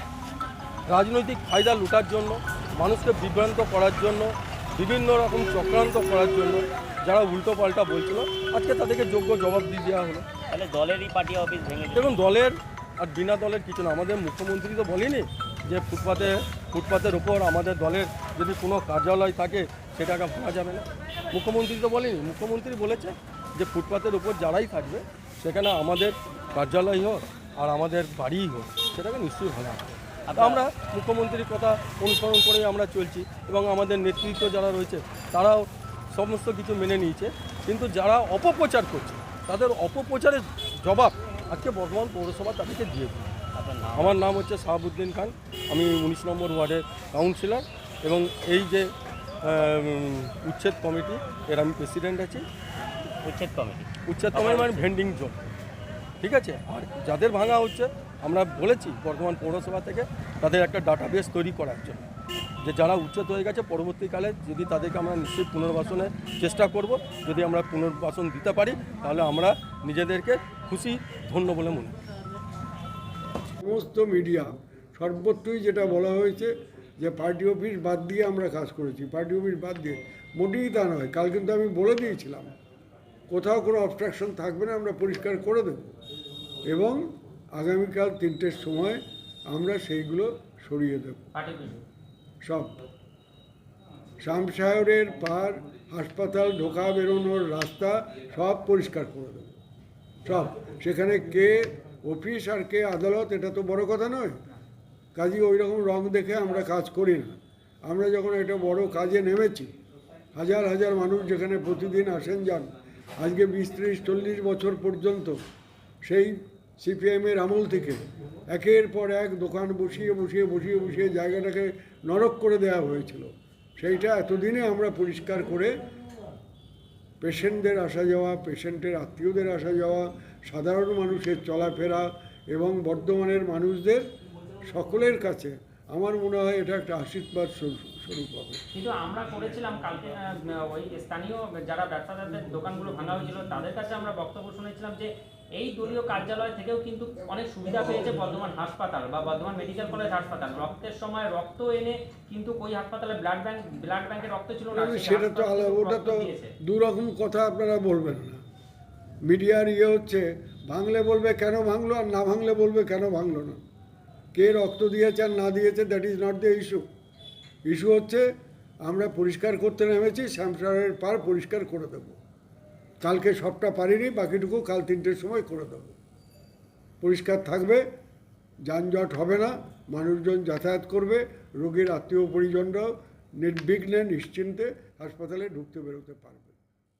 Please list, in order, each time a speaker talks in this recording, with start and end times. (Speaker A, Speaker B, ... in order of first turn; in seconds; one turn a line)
Speaker A: 0.9-10.3
Speaker B: 10.5-12.2
Speaker A: 11.9-43.3
Speaker B: 30.3-30.6
Speaker B: 43.5-44.2
Speaker A: 43.9-48.9
Speaker A: 49.4-52.5
Speaker B: 53.2-54.9
Speaker A: 54.1-55.4
Speaker A: 56.2-62.1
Speaker A: 62.6-72.0
Speaker C: 73.6-82.5
Speaker C: 83.3-85.9
Speaker C: 86.7-91.2
Speaker D: 91.4-91.8
Speaker C: 92.4-92.8
Speaker C: 94.2-99.6
Speaker C: 100.2-104.4
Speaker C: 105.2-109.8
Speaker C: 110.3-115.4
Speaker C: 116.0-125.8
Speaker C: 127.2-134.1
Speaker C: 134.6-138.6
Speaker D: 138.7-156.5
Speaker C: 154.7-158.4
Speaker C: 159.2-163.6
Speaker C: 164.3-166.9
Speaker C: 167.7-168.3
Speaker C: 168.8-172.2
Speaker C: 173.0-175.9
Speaker C: 177.0-177.9
Speaker C: 178.7-186.6